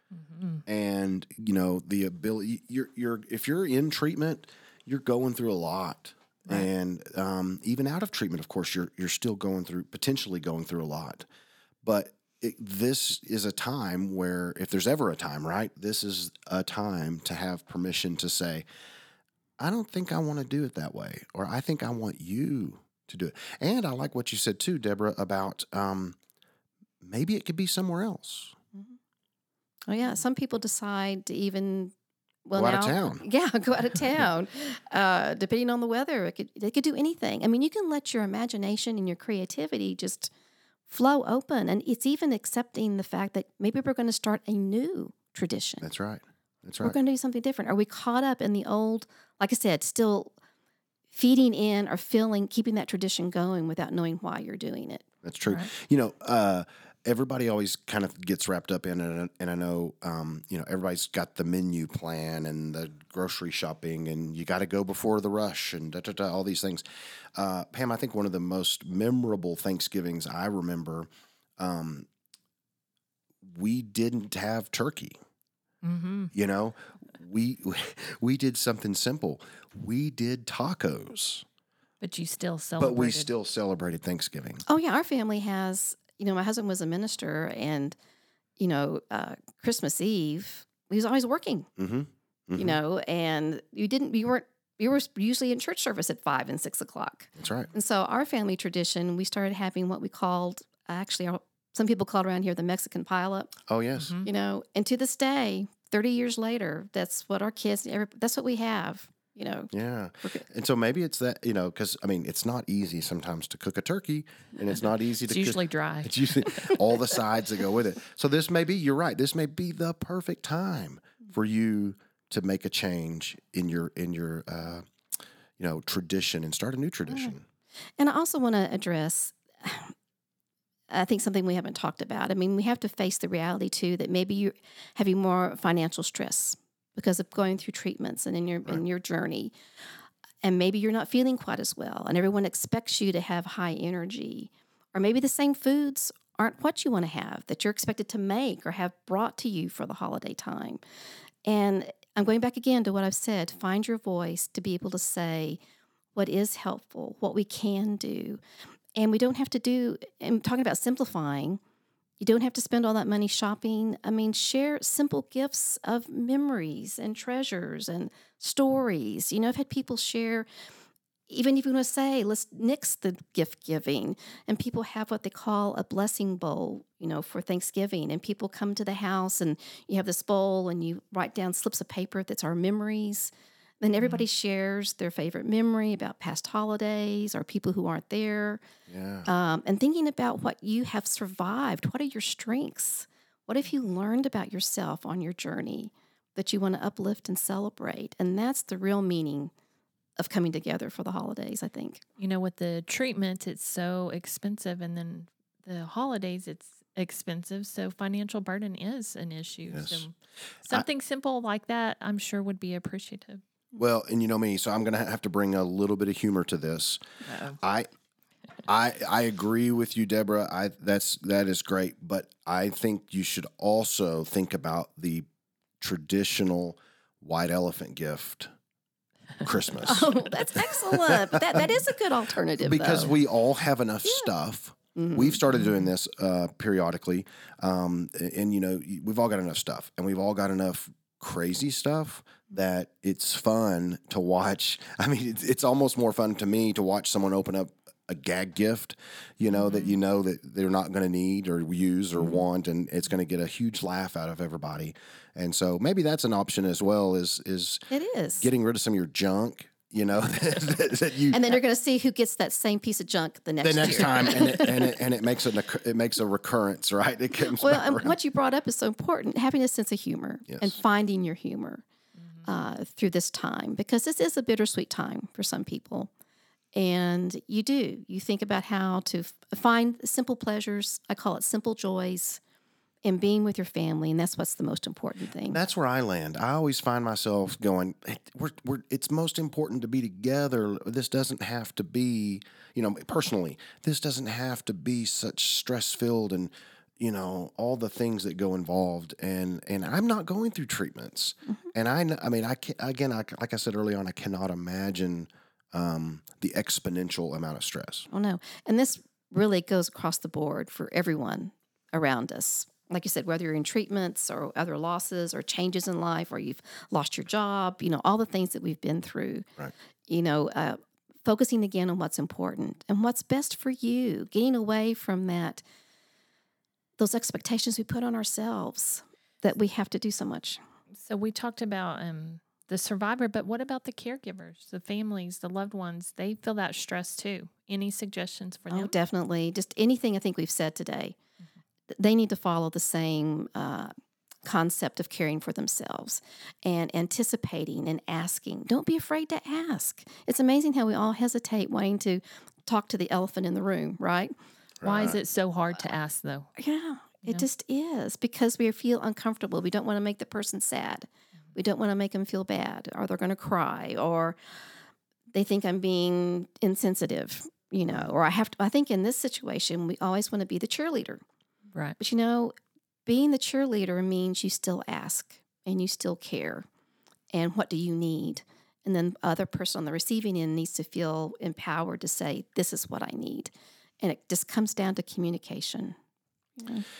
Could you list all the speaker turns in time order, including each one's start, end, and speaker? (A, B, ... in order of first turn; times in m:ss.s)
0:00.1-0:00.6 A
0:00.6-0:11.2 B
0:11.8-0:18.6 B
0:19.6-0:26.2 B
0:27.0-0:28.5 B
0:29.9-0:31.9 C
0:32.4-0:40.3 C
0:32.5-0:33.2 B
0:40.9-0:45.9 C
0:45.8-0:47.0 B
0:46.8-0:50.3 C
0:51.1-0:55.0 C
0:55.2-1:12.1 B
1:13.4-1:15.1 B
1:15.8-1:16.3 A
1:16.3-1:21.4 B
1:22.0-1:23.3 A
1:22.8-1:24.6 B
1:24.7-1:27.9 C
1:28.6-1:31.7 C
1:31.8-1:32.8 B
1:32.6-1:43.5 C
1:37.4-1:37.7 B
1:43.7-1:44.1 B
1:44.0-1:44.3 A
1:44.2-1:49.7 C
1:49.7-2:04.9 B
1:55.2-1:56.8 A
2:05.6-2:07.4 B
2:08.0-2:09.9 C
2:10.9-2:19.5 C
2:20.4-2:30.8 C
2:31.4-2:35.6 C
2:36.1-2:38.4 C
2:39.0-2:41.6 C
2:42.2-2:50.5 C
2:51.3-3:08.6 C
3:08.9-3:09.3 B
3:09.2-3:19.5 C
3:20.2-3:22.0 C
3:22.2-3:30.1 A
3:29.7-3:30.0 B
3:30.6-3:33.4 A
3:33.7-3:37.0 B
3:37.2-3:37.6 A
3:37.6-3:37.9 B
3:38.6-3:45.3 B
3:45.8-3:48.5 B
3:49.4-3:51.6 B
3:49.8-3:53.1 C
3:52.6-4:17.8 B
3:54.9-3:55.4 C
4:09.7-4:09.9 A
4:17.9-4:18.4 C
4:18.4-4:21.6 B
4:21.3-4:24.9 C
4:23.6-4:28.2 B
4:27.4-4:31.8 C
4:30.5-4:30.7 B
4:32.4-4:36.1 C
4:36.7-4:42.4 C
4:43.0-4:45.6 C
4:45.5-5:08.1 B
5:08.1-5:19.4 C
5:20.1-5:25.6 C
5:27.0-5:30.6 C
5:31.0-5:38.9 A
5:38.7-5:41.2 C
5:41.9-5:43.9 C
5:44.4-5:54.3 C
5:54.8-5:55.2 B
5:54.8-5:56.5 A
5:56.6-6:04.4 C
6:05.3-6:11.2 C
6:11.7-6:12.0 A
6:12.0-6:12.5 C
6:13.0-6:16.7 C
6:17.3-6:26.0 C
6:26.6-6:26.8 C